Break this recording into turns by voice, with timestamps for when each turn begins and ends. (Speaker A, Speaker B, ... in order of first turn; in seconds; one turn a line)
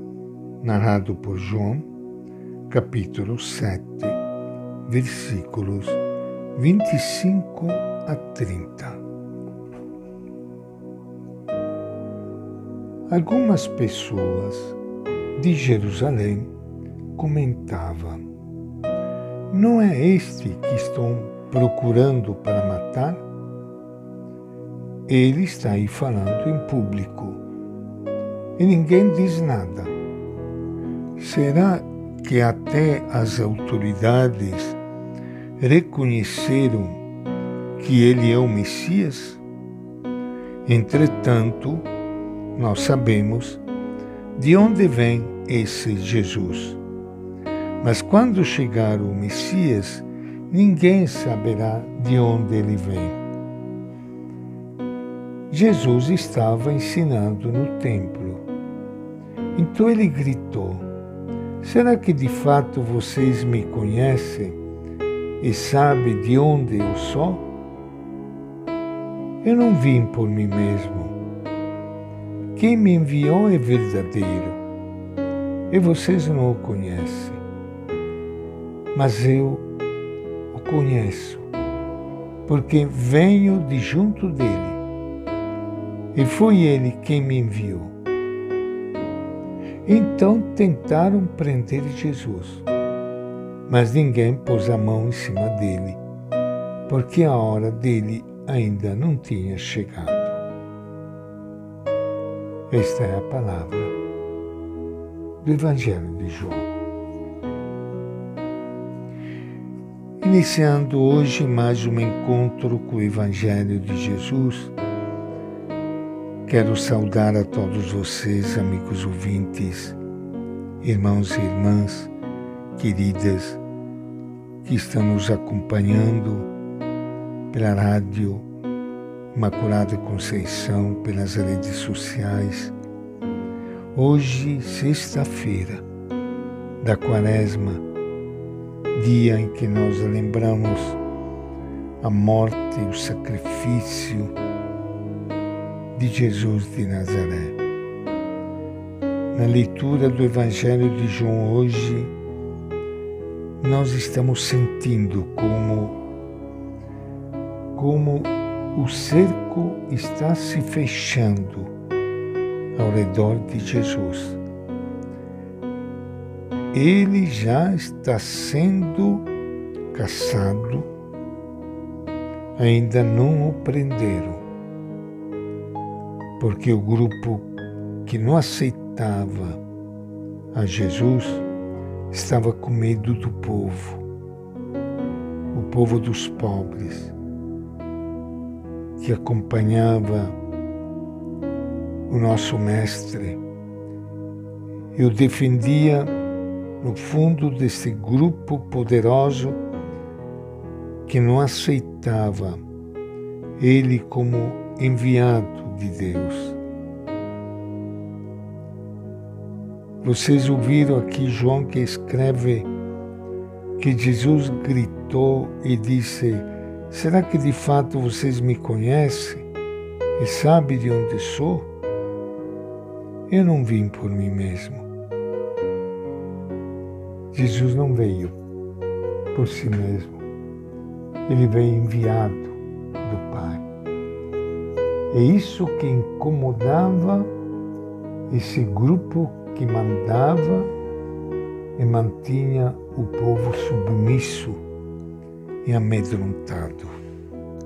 Speaker A: 0.6-1.9
Speaker A: 2.7-4.2
Speaker A: 4.8-6.0
Speaker A: 6.5-9.0
Speaker A: 13.1-14.8
Speaker A: 15.3-16.5
Speaker A: 17.1-18.2
Speaker A: 19.5-23.2
Speaker A: 25.1-27.4
Speaker A: 28.6-29.9
Speaker A: 31.2-34.8
Speaker A: 35.6-37.0
Speaker A: 37.8-39.4
Speaker A: 40.6-41.9
Speaker A: 42.5-43.6
Speaker A: 44.4-46.8
Speaker A: 47.8-53.2
Speaker A: 55.5-58.4
Speaker A: 59.5-60.9
Speaker A: 61.6-64.6
Speaker A: 65.4-67.5
Speaker A: 69.4-71.2
Speaker A: 72.5-74.6
Speaker A: 75.7-77.4
Speaker A: 78.9-79.7
Speaker A: 80.5-81.5
Speaker A: 82.5-84.8
Speaker A: 86.1-88.0
Speaker A: 89.8-92.6
Speaker A: 93.7-96.0
Speaker A: 96.9-100.4
Speaker A: 102.7-103.9
Speaker A: 105.4-106.7
Speaker A: 110.2-114.7
Speaker A: 116.5-120.0
Speaker A: 120.8-122.1
Speaker A: 122.8-123.6
Speaker A: 124.6-126.5
Speaker A: 127.5-128.5
Speaker A: 129.3-132.7
Speaker A: 133.9-135.8
Speaker A: 136.8-137.8
Speaker A: 138.9-141.0
Speaker A: 142.0-144.3
Speaker A: 145.9-147.6
Speaker A: 149.3-152.1
Speaker A: 153.6-156.0
Speaker A: 157.8-161.7
Speaker A: 162.7-164.4
Speaker A: 166.7-169.3
Speaker A: 169.9-170.9
Speaker A: 172.6-174.4
Speaker A: 176.4-177.5
Speaker A: 178.0-179.6
Speaker A: 180.5-181.4
Speaker A: 182.1-184.0
Speaker A: 185.5-187.1
Speaker A: 189.0-190.3
Speaker A: 192.1-193.4
Speaker A: 194.9-196.1
Speaker A: 196.8-199.6
Speaker A: 201.1-202.6
Speaker A: 203.6-206.6
Speaker A: 210.0-212.7
Speaker A: 213.8-219.4
Speaker A: 220.2-221.7
Speaker A: 223.3-224.9
Speaker A: 227.3-228.4
Speaker A: 229.3-230.2
Speaker A: 231.3-233.7
Speaker A: 235.1-237.3
Speaker A: 238.3-240.7
Speaker A: 241.8-244.6
Speaker A: 245.6-246.9